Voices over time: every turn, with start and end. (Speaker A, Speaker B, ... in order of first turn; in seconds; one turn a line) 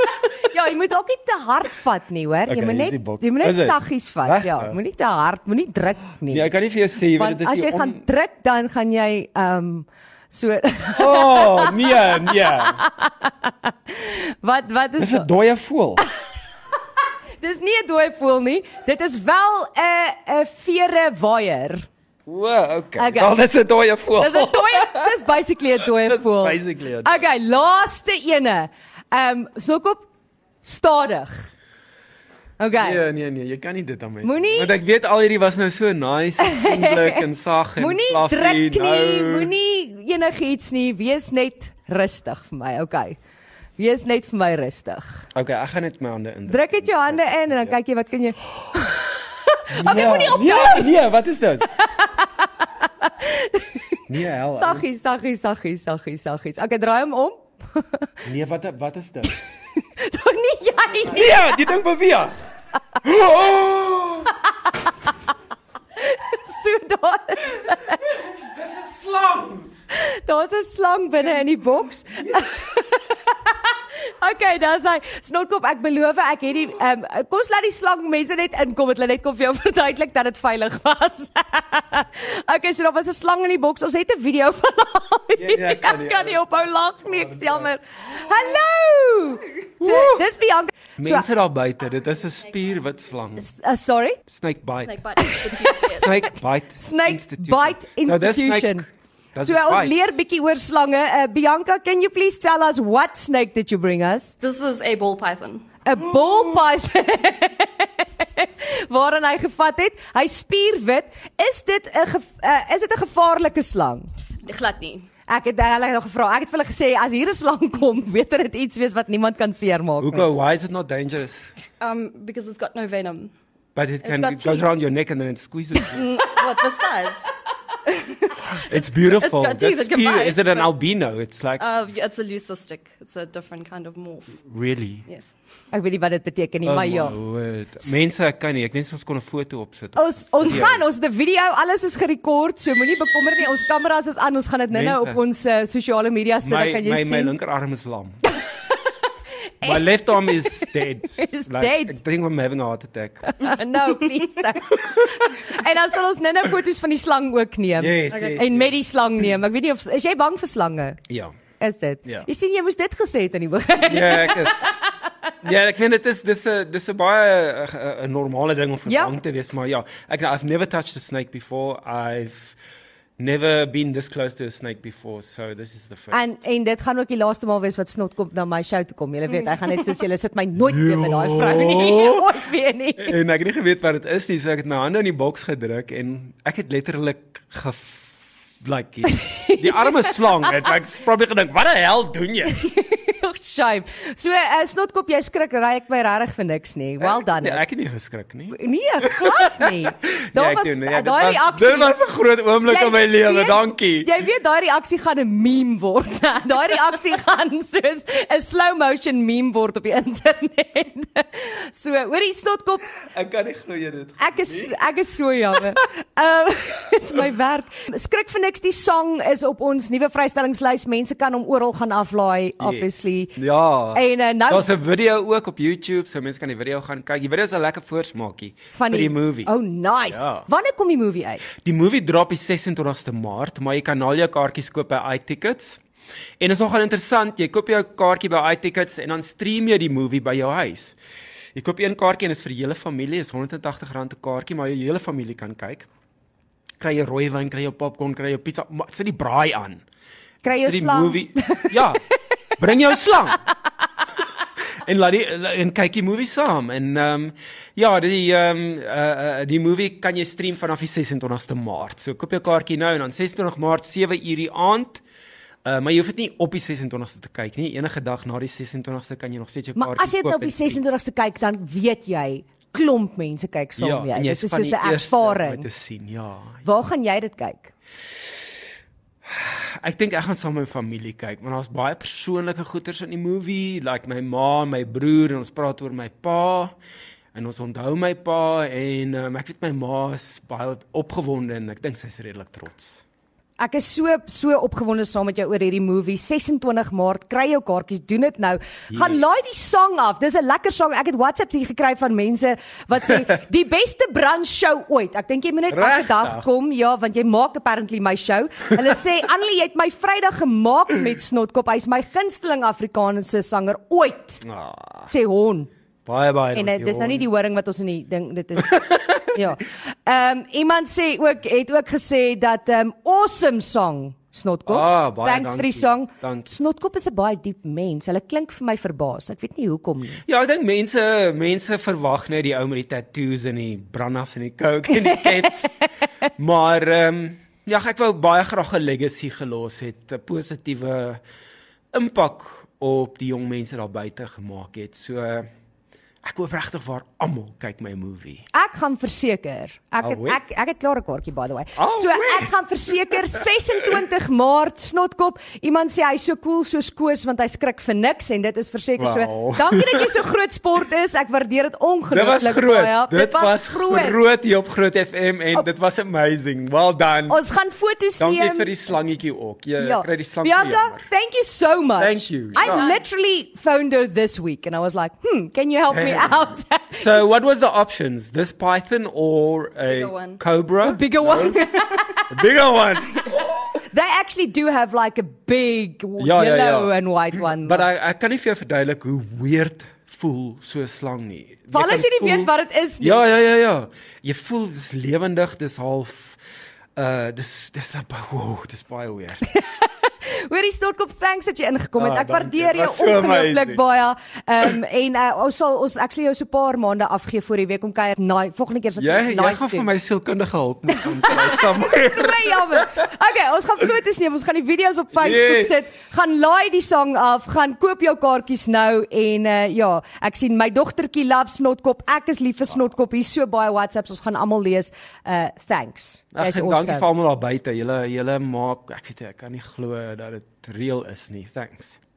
Speaker A: 0.4-6.5
Speaker B: 2.5-4.8
Speaker B: 6.3-8.0
Speaker A: 7.2-15.3
Speaker B: 10.9-12.8
Speaker B: 15.0-16.1
Speaker A: 17.4-21.9
Speaker B: 22.3-25.1
Speaker A: 23.0-23.4
Speaker A: 24.2-30.1
Speaker B: 25.8-27.3
Speaker A: 30.6-31.5
Speaker A: 32.6-33.0
Speaker B: 32.8-39.5
Speaker A: 34.2-34.8
Speaker A: 36.4-37.2
Speaker A: 37.8-43.2
Speaker A: 43.8-45.3
Speaker B: 45.3-47.8
Speaker A: 46.5-50.9
Speaker B: 49.7-51.7
Speaker A: 51.8-54.0
Speaker B: 54.1-54.9
Speaker A: 54.6-58.1
Speaker B: 58.2-59.4
Speaker A: 60.0-61.5
Speaker B: 61.1-62.3
Speaker B: 63.0-64.3
Speaker A: 66.0-68.2
Speaker B: 67.7-69.7
Speaker A: 69.9-91.3
Speaker B: 72.2-72.5
Speaker B: 85.3-86.5
Speaker B: 87.0-87.7
Speaker B: 89.8-90.2
Speaker B: 91.0-93.5
Speaker A: 93.4-94.2
Speaker B: 94.3-100.0
Speaker C: 94.8-96.1
Speaker A: 95.2-95.8
Speaker A: 96.8-98.9
Speaker A: 99.4-104.4
Speaker C: 104.4-105.7
Speaker A: 105.8-114.1
Speaker C: 114.4-115.1
Speaker A: 115.3-120.3
Speaker B: 120.0-121.5
Speaker C: 121.8-123.3
Speaker B: 123.8-126.1
Speaker C: 124.0-124.7
Speaker C: 125.9-127.3
Speaker C: 127.8-130.7
Speaker B: 128.5-131.7
Speaker C: 131.6-134.4
Speaker B: 134.4-135.1
Speaker A: 135.7-137.2
Speaker B: 136.6-140.9
Speaker A: 139.9-147.3
Speaker B: 144.7-145.2
Speaker B: 146.4-148.2
Speaker A: 148.3-148.7
Speaker A: 149.6-152.0
Speaker B: 149.6-153.3
Speaker A: 153.3-161.0
Speaker B: 157.8-158.8
Speaker B: 161.1-161.3
Speaker A: 161.6-164.8
Speaker B: 163.8-164.7
Speaker B: 165.4-172.6
Speaker A: 168.9-169.2
Speaker B: 173.2-176.3
Speaker A: 176.1-183.2
Speaker B: 180.6-182.3
Speaker B: 183.0-192.6
Speaker A: 189.1-190.7
Speaker A: 192.5-197.6
Speaker B: 197.0-204.1
Speaker A: 198.5-202.0
Speaker A: 202.7-212.9
Speaker B: 213.1-214.8
Speaker A: 214.2-223.4
Speaker B: 222.6-229.5
Speaker A: 223.9-224.7
Speaker A: 228.7-231.5
Speaker B: 230.1-230.4
Speaker B: 231.6-235.8
Speaker B: 236.4-241.0
Speaker B: 241.6-245.9
Speaker B: 246.8-249.8
Speaker A: 250.4-252.0
Speaker B: 250.6-252.0
Speaker B: 252.6-253.4
Speaker B: 254.8-265.0
Speaker B: 265.6-270.8
Speaker A: 269.8-275.7
Speaker B: 273.8-276.6
Speaker A: 276.6-277.7
Speaker B: 279.2-286.8
Speaker B: 287.3-293.0
Speaker A: 293.6-314.4
Speaker B: 298.9-299.2
Speaker B: 305.7-306.5
Speaker B: 314.4-315.1
Speaker A: 315.1-315.7
Speaker B: 316.1-317.3
Speaker A: 316.5-330.2
Speaker B: 318.7-319.4
Speaker B: 324.7-326.5
Speaker B: 330.2-335.8
Speaker B: 336.4-341.2
Speaker B: 341.9-345.5
Speaker B: 346.2-348.5
Speaker A: 348.5-364.2
Speaker B: 350.0-350.4
Speaker B: 351.8-354.0
Speaker B: 359.0-360.1
Speaker B: 362.1-367.4
Speaker A: 367.3-368.7
Speaker B: 368.2-371.1
Speaker A: 369.8-377.2
Speaker B: 372.0-372.9
Speaker C: 372.6-373.0
Speaker B: 375.9-383.7
Speaker C: 379.9-380.4
Speaker A: 380.8-382.3
Speaker A: 383.9-387.9
Speaker B: 386.2-396.4
Speaker A: 391.7-393.2
Speaker B: 397.0-399.4
Speaker A: 399.5-409.9
Speaker B: 402.0-403.8
Speaker B: 409.0-412.9
Speaker A: 410.9-427.1
Speaker B: 415.1-415.8
Speaker B: 426.3-432.0